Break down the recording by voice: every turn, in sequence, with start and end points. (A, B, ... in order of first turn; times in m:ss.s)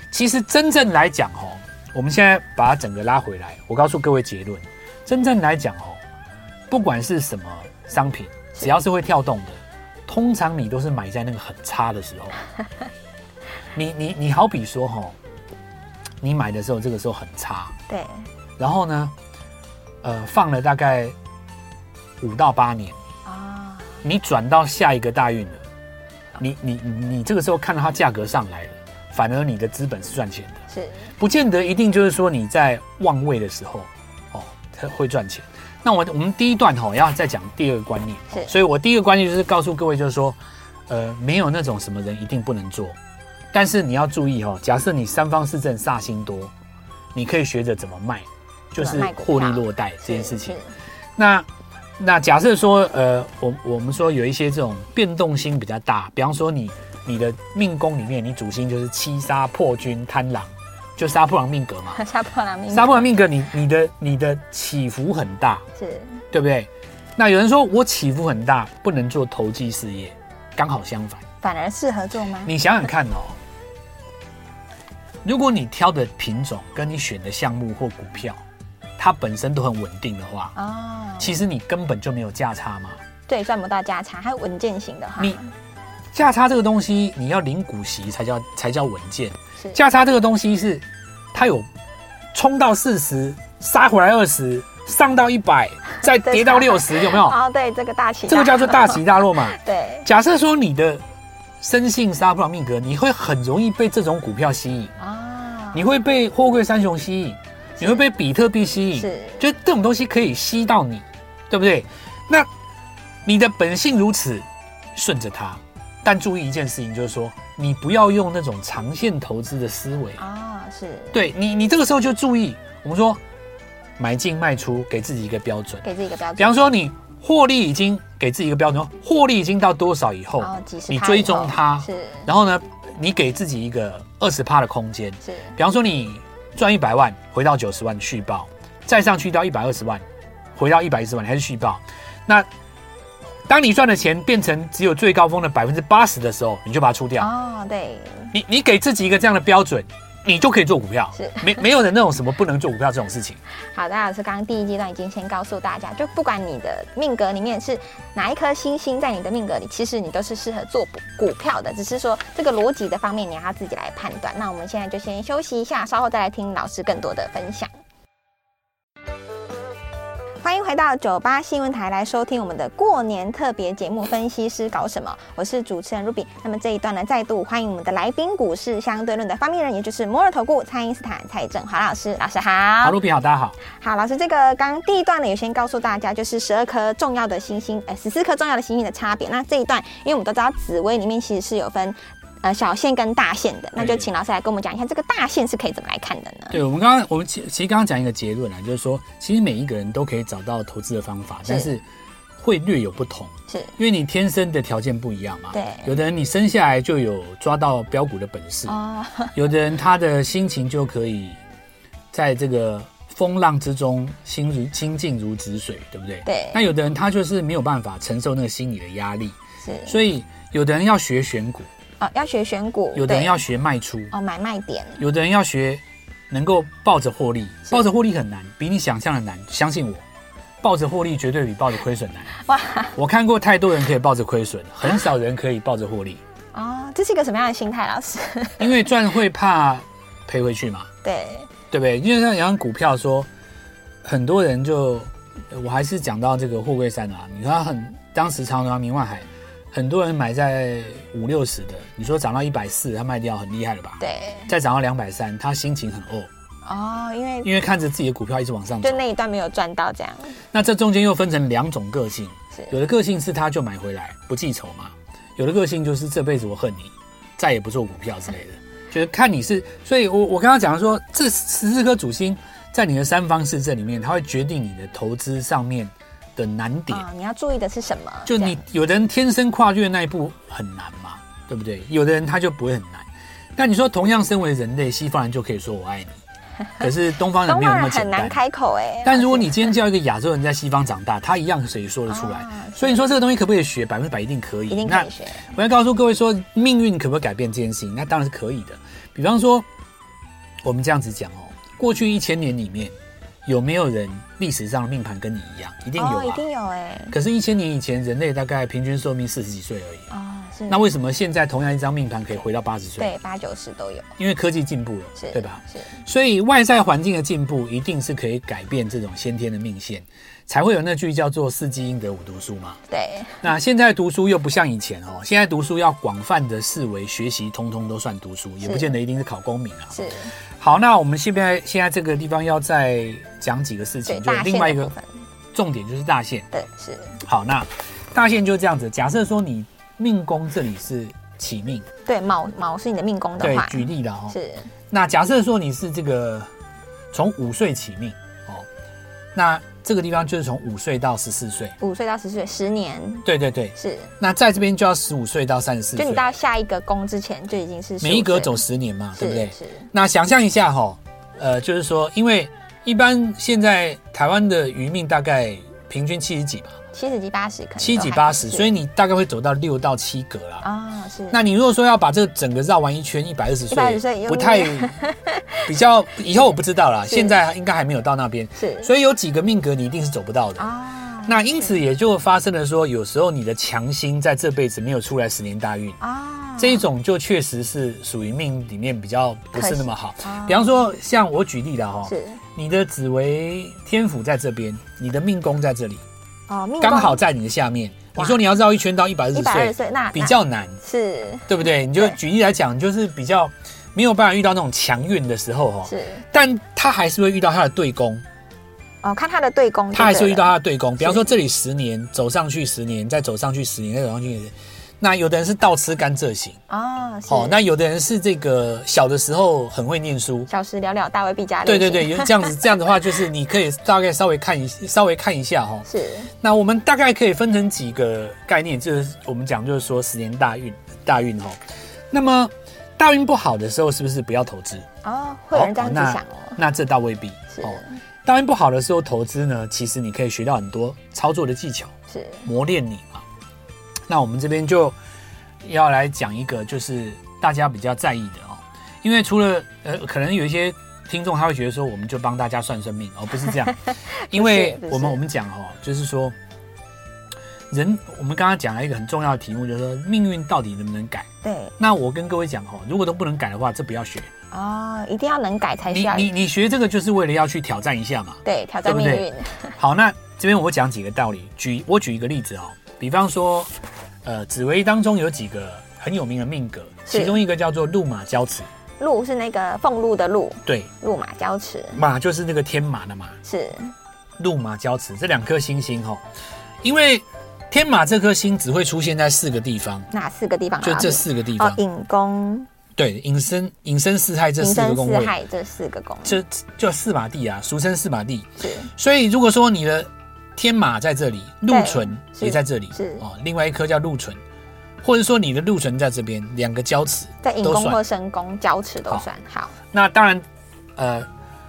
0:00.1-0:06.0 A
0:06.7-0:12.4 A
0:13.7-0:15.2 A
0:16.2-0:17.7 A
0:17.9-0:18.3 B
0:18.6-0:19.1 A
0:20.0-0:21.1 A
0:22.2-0:23.0 A
0:23.2-0:24.0 B
0:24.0-0:25.6 A
0:26.4-0:30.6 A
0:30.7-0:31.1 B
0:31.2-0:43.0 A
0:43.5-0:46.5 A
0:47.1-0:50.6 A
0:48.8-0:50.7 B
0:51.2-0:51.5 A
0:52.0-1:02.0 A
1:01.9-1:03.1 B
1:02.7-1:05.6 A
1:05.8-1:06.2 B
1:06.3-1:11.2 A
1:11.4-1:12.5 B
1:12.4-1:13.4 A
1:15.2-1:18.4 A
1:19.0-1:20.5 A
1:20.6-1:21.4 B
1:21.2-1:23.0 A
1:23.3-1:25.5 B
1:26.1-1:31.7 A
1:32.3-1:37.4 A
1:36.0-1:40.1 B
1:38.3-1:41.0 A
1:41.6-1:44.9 A
1:45.0-1:45.8 B
1:45.7-1:52.5 A
1:49.0-1:49.4 B
1:53.2-2:00.2 A
2:00.2-2:01.2 B
2:01.1-2:03.2 A
2:04.0-2:05.8 A
2:05.8-2:06.7 B
2:06.4-2:20.0 A
2:10.4-2:12.3 B
2:15.2-2:15.5 B
2:20.6-2:22.5 A
2:23.5-2:27.3 A
2:27.2-2:28.3 B
2:28.3-2:33.4 A
2:31.2-2:31.6 B
2:33.7-2:47.7 B
2:50.4-3:03.0 B
3:02.8-3:03.6 A
3:03.6-3:16.6 B
3:13.8-3:14.1 A
3:16.5-3:21.8 A
3:21.4-3:21.7 B
3:22.4-3:28.8 A
3:23.5-3:23.7 B
3:25.5-3:25.9 B
3:28.7-3:29.4 B
3:29.3-3:31.4 A
3:32.1-3:39.3 A
3:36.2-3:36.6 B
3:39.6-3:40.0 B
3:39.8-3:41.7 A
3:42.0-3:43.3 B
3:42.9-3:44.1 A
3:44.1-3:45.0 B
3:45.0-3:50.0 A
3:50.6-3:52.3 A
3:52.4-3:52.9 B
3:52.9-3:56.2 A
3:56.5-3:58.8 B
3:58.6-4:00.9 A
4:01.0-4:01.5 B
4:01.7-4:03.3 A
4:04.0-4:16.3 A
4:14.0-4:14.5 B
4:16.6-4:17.5 B
4:17.4-4:19.0 A
4:18.8-4:20.4 B
4:20.5-4:37.0 A
4:36.9-4:38.6 B
4:38.2-4:46.2 A
4:46.8-4:48.4 A
4:47.4-4:49.7 B
4:49.0-4:59.7 A
4:52.1-4:53.1 B
4:54.7-4:55.5 B
5:00.6-5:02.9 A
5:03.4-5:06.4 A
5:06.0-5:07.2 B
5:07.1-5:10.1 A
5:10.1-5:10.8 B
5:10.7-5:13.1 A
5:13.0-5:14.1 B
5:14.2-5:22.8 A
5:15.2-5:16.0 B
5:22.9-5:23.5 B
5:23.4-5:30.0 A
5:28.6-5:28.9 B
5:29.9-5:30.3 B
5:30.6-5:34.9 A
5:34.1-5:35.1 B
5:35.5-5:36.5 A
5:36.5-5:37.2 B
5:37.2-5:41.9 A
5:42.0-5:44.7 B
5:43.4-5:44.4 A
5:44.9-5:46.5 A
5:47.1-5:48.7 A
5:49.3-5:51.7 A
5:51.8-5:53.2 B
5:53.2-5:56.2 A
5:53.8-5:54.1 B
5:56.0-5:58.6 B
5:58.0-6:06.8 A
5:59.2-5:59.9 B
6:06.9-6:08.7 B
6:07.8-6:10.6 A
6:10.6-6:11.4 B
6:11.3-6:15.0 A
6:13.7-6:15.6 B
6:15.6-6:20.7 A
6:17.1-6:17.4 B
6:18.6-6:18.9 B
6:20.6-6:21.7 B
6:21.2-6:26.0 A
6:26.0-6:26.8 B
6:26.6-6:36.0 A
6:29.6-6:30.8 B
6:32.0-6:32.4 B
6:36.5-6:37.2 B
6:36.8-6:40.8 A
6:38.2-6:38.4 B
6:39.3-6:42.1 B
6:41.5-6:48.2 A
6:45.8-6:46.2 B
6:49.0-6:51.2 B
6:49.9-6:56.6 A
6:56.7-6:57.6 B
6:57.3-7:00.5 A
7:00.5-7:02.6 B
7:01.6-7:05.9 A
7:05.9-7:06.3 B
7:06.4-7:11.6 A
7:12.1-7:14.9 A
7:15.0-7:16.6 B
7:15.5-7:21.9 A
7:17.5-7:18.0 B
7:22.1-7:22.5 B
7:22.4-7:23.2 A
7:24.1-7:25.0 A
7:25.6-7:33.8 A
7:33.7-7:35.2 B
7:34.3-7:36.4 A
7:37.7-7:41.3 A
7:41.4-7:41.7 B
7:41.8-7:44.3 A
7:44.5-7:46.3 B
7:45.9-7:49.3 A
7:48.4-7:49.8 B
7:49.8-7:53.7 A
7:54.2-7:58.7 A
7:57.1-7:57.4 B
7:59.0-8:02.0 B
8:01.9-8:03.4 A
8:03.4-8:03.9 B
8:04.4-8:06.2 A
8:06.8-8:10.1 A
8:10.1-8:12.7 B
8:10.8-8:11.8 A
8:13.0-8:15.3 A
8:14.6-8:16.4 B
8:16.2-8:24.4 A
8:18.6-8:18.9 B
8:21.7-8:23.2 B
8:25.0-8:28.0 A
8:27.4-8:29.7 B
8:29.9-8:30.4 A
8:31.0-8:31.3 A